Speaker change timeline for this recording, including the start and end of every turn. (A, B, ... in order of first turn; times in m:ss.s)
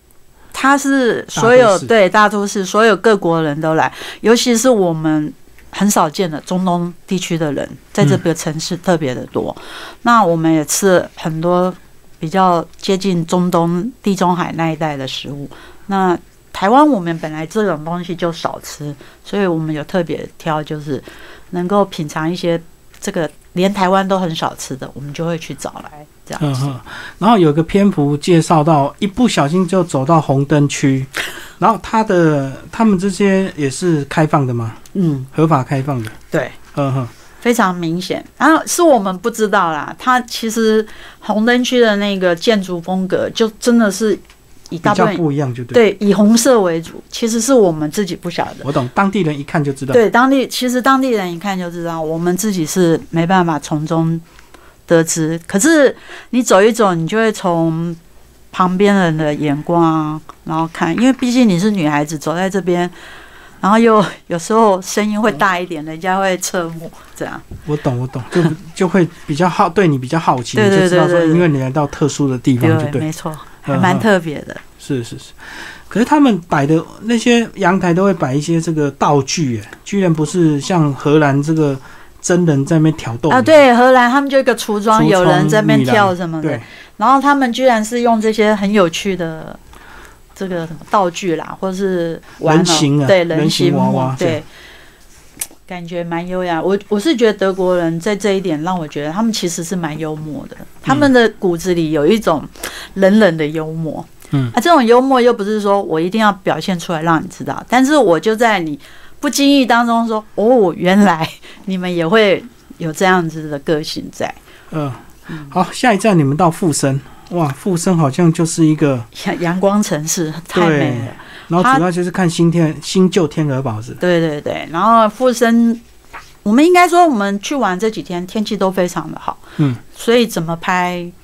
0:00.5-0:26.7 A
0:01.4-0:01.9 B
0:26.4-0:34.8 B
0:34.9-0:35.3 A
0:35.3-0:36.2 B
0:36.3-0:36.6 A
0:36.7-0:37.1 B
0:37.4-0:48.7 A
0:44.8-0:45.8 B
0:48.6-0:50.0 B
0:49.9-0:54.2 A
0:54.9-0:58.0 A
0:58.5-1:02.9 A
1:03.6-1:07.5 A
1:07.6-1:13.1 B
1:10.6-1:11.5 A
1:12.6-1:14.6 A
1:13.7-1:14.1 B
1:14.8-1:23.6 B
1:23.3-1:29.6 A
1:24.9-1:26.6 B
1:30.4-1:34.5 A
1:32.4-1:34.4 B
1:35.7-1:54.4 A
1:54.7-1:59.1 B
1:55.3-1:55.6 A
1:59.1-2:01.8 A
2:00.5-2:04.0 B
2:04.0-2:05.8 A
2:06.4-2:11.1 A